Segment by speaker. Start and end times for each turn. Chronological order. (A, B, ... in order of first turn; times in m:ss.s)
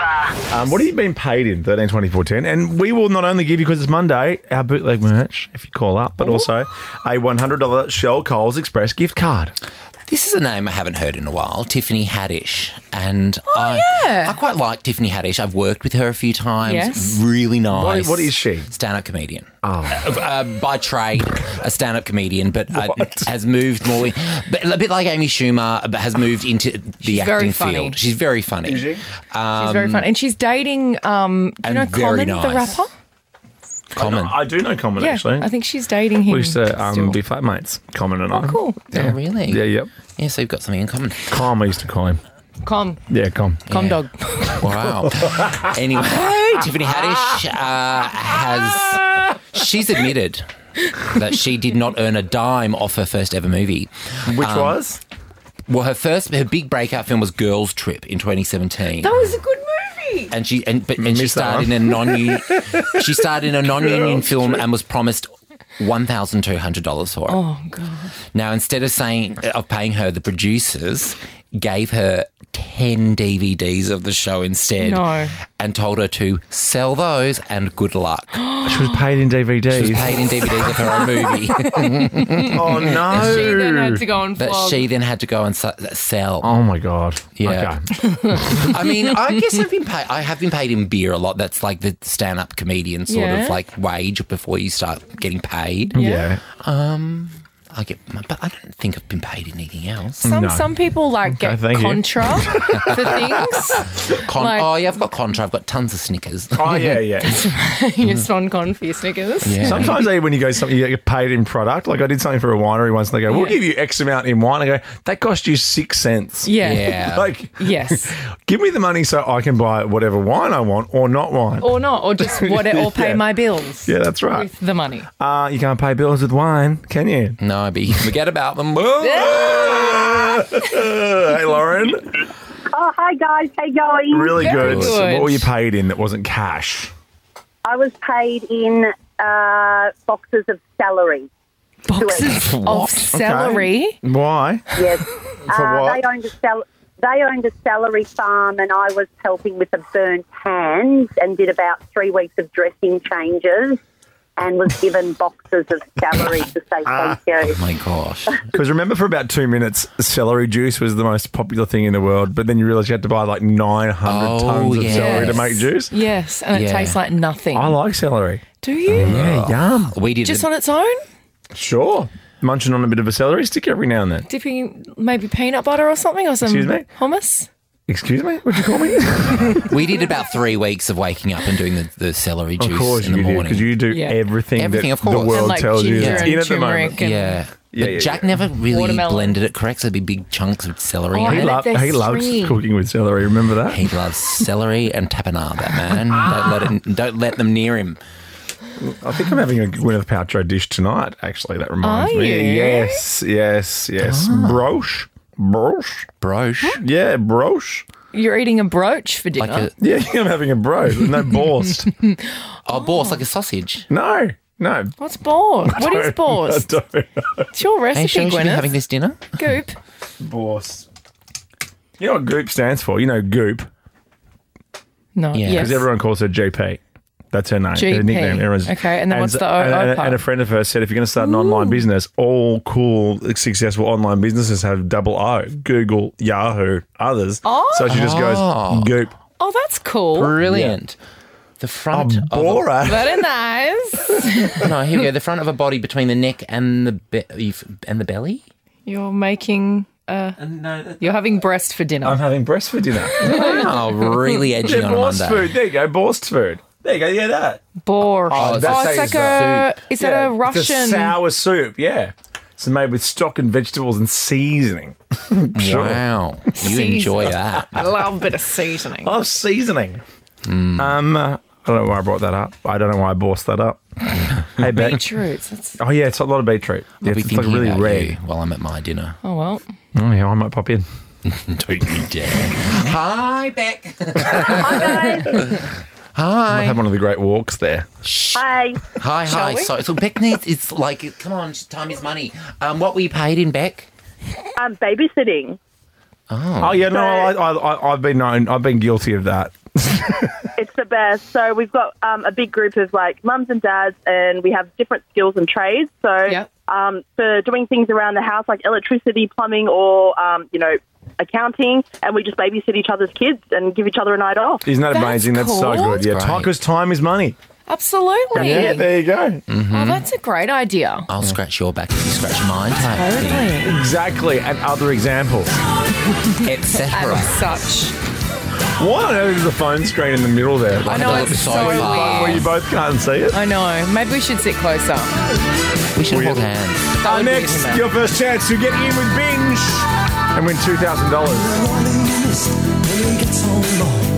0:00.5-0:09.5 A
0:10.0-0:30.1 B
0:13.5-0:14.4 C
0:16.6-0:17.2 C
0:17.7-0:18.7 A
0:19.6-0:20.1 A
0:22.8-0:23.3 A
0:27.0-0:28.0 C
0:28.6-0:29.0 A
0:29.6-0:32.9 C
0:31.6-0:32.8 B
0:33.9-0:34.4 B
0:34.0-0:35.5 A
0:35.0-0:37.2 C
0:36.3-0:39.9 A
0:38.3-0:38.8 C
0:38.9-0:41.4 B
0:41.3-0:42.2 A
0:42.6-0:43.0 C
0:43.1-0:43.6 A
0:43.7-0:44.0 B
0:43.7-0:44.7 C
0:44.6-0:54.8 B
0:45.0-0:45.5 A
0:54.3-0:55.0 A
0:55.7-0:59.2 B
0:59.0-1:00.3 C
1:00.3-1:07.4 B
1:01.0-1:03.1 A
1:03.7-1:04.6 A
1:07.3-1:08.1 C
1:08.3-1:18.4 B
1:14.8-1:15.3 C
1:18.5-1:18.9 C
1:18.6-1:21.0 A
1:19.7-1:23.5 B
1:21.7-1:24.9 C
1:22.5-1:24.0 A
1:24.4-1:26.5 B
1:26.4-1:27.8 A
1:27.4-1:27.7 B
1:28.1-1:28.7 C
1:28.3-1:36.0 B
1:33.1-1:33.6 C
1:35.9-1:36.4 A
1:36.0-1:36.3 C
1:36.6-1:40.2 B
1:40.2-1:44.8 C
1:40.2-1:40.7 A
1:41.2-1:43.3 A
1:42.8-1:43.1 B
1:44.0-1:47.0 B
1:46.6-1:47.5 A
1:47.2-1:49.9 C
1:49.4-1:50.0 B
1:49.6-2:03.2 A
1:53.3-1:53.6 C
1:56.4-1:58.1 C
1:56.6-1:57.3 B
2:01.6-2:05.1 C
2:03.8-2:04.5 A
2:05.2-2:07.4 A
2:07.4-2:09.3 B
2:09.0-2:10.6 C
2:09.1-2:12.0 A
2:12.7-2:14.4 D
2:14.1-2:16.9 A
2:14.4-2:15.5 C
2:14.4-2:15.0 B
2:17.6-2:21.3 D
2:21.8-2:24.0 C
2:22.0-2:22.4 D
2:22.2-2:23.0 B
2:23.1-2:24.8 A
2:24.7-2:33.8 D
2:25.5-2:26.0 A
2:34.4-2:37.6 D
2:37.4-2:38.5 B
2:38.5-2:45.9 A
2:44.0-2:45.6 B
2:44.8-2:47.8 C
2:46.5-2:47.0 B
2:47.5-2:50.0 A
2:48.6-2:49.2 C
2:48.9-2:50.5 B
2:50.2-2:51.0 C
2:51.5-2:54.2 A
2:54.3-2:57.5 C
2:56.4-2:56.9 A
2:57.9-2:59.7 A
2:59.6-3:03.8 B
3:02.6-3:07.0 A
3:03.9-3:04.2 C
3:04.6-3:06.4 B
3:05.3-3:07.4 C
3:07.0-3:11.5 B
3:07.7-3:08.4 A
3:08.7-3:09.4 C
3:11.1-3:12.6 C
3:11.2-3:13.8 A
3:13.7-3:18.0 B
3:18.8-3:26.1 A
3:21.8-3:23.0 C
3:24.0-3:24.7 B
3:26.2-3:26.8 B
3:26.8-3:27.8 A
3:28.1-3:29.7 C
3:29.4-3:29.7 B
3:29.8-3:31.9 A
3:32.6-3:33.8 B
3:32.7-3:33.2 C
3:33.9-3:34.9 A
3:35.0-3:36.7 C
3:35.6-3:37.5 A
3:37.5-3:38.8 C
3:37.9-3:39.3 B
3:39.3-3:39.8 C
3:40.2-3:40.8 A
3:42.0-3:43.7 A
3:45.1-3:45.9 C
3:45.3-3:45.8 B
3:45.5-3:46.8 A
3:47.3-3:59.1 A
3:47.7-3:50.2 C
3:51.2-3:51.8 C
3:57.4-3:57.9 C
3:57.9-3:58.9 B
3:59.4-4:00.4 C
4:00.1-4:01.0 B
4:00.4-4:00.8 A
4:01.6-4:02.8 B
4:01.9-4:03.3 A
4:02.8-4:04.7 C
4:04.5-4:08.4 B
4:08.8-4:12.2 C
4:10.4-4:11.3 A
4:12.0-4:13.5 A
4:13.2-4:15.5 B
4:13.3-4:13.6 C
4:14.6-4:17.6 A
4:17.8-4:21.2 C
4:18.2-4:26.0 A
4:18.3-4:19.7 B
4:25.5-4:27.8 B
4:26.6-4:29.1 C
4:29.0-4:30.0 A
4:30.4-4:31.0 B
4:30.8-4:33.8 A
4:34.4-4:35.1 A
4:34.6-4:35.8 C
4:35.8-4:38.2 A
4:37.0-4:39.2 B
4:39.2-4:39.6 C
4:39.9-4:40.8 A
4:41.2-4:46.8 B
4:44.4-4:45.4 E
4:46.5-4:47.9 A
4:48.0-4:48.4 B
4:48.3-4:48.8 E
4:48.9-4:53.9 B
4:49.3-4:49.7 C
4:54.6-4:55.6 E
4:56.3-4:56.9 B
4:56.6-5:00.5 A
4:56.9-4:57.3 E
5:00.6-5:14.6 E
5:14.6-5:17.4 A
5:14.9-5:16.1 C
5:16.0-5:16.5 B
5:17.7-5:18.9 C
5:18.3-5:18.8 E
5:18.3-5:19.4 A
5:19.5-5:20.0 B
5:19.7-5:21.1 C
5:21.1-5:23.5 B
5:22.9-5:23.8 C
5:23.6-5:25.5 A
5:26.4-5:27.4 B
5:26.9-5:27.9 C
5:28.8-5:33.4 A
5:30.8-5:32.5 B
5:30.8-5:32.5 C
5:33.3-5:35.2 C
5:35.9-5:36.9 B
5:36.1-5:36.4 A
5:37.0-5:37.9 C
5:37.0-5:42.2 A
5:43.0-5:43.7 A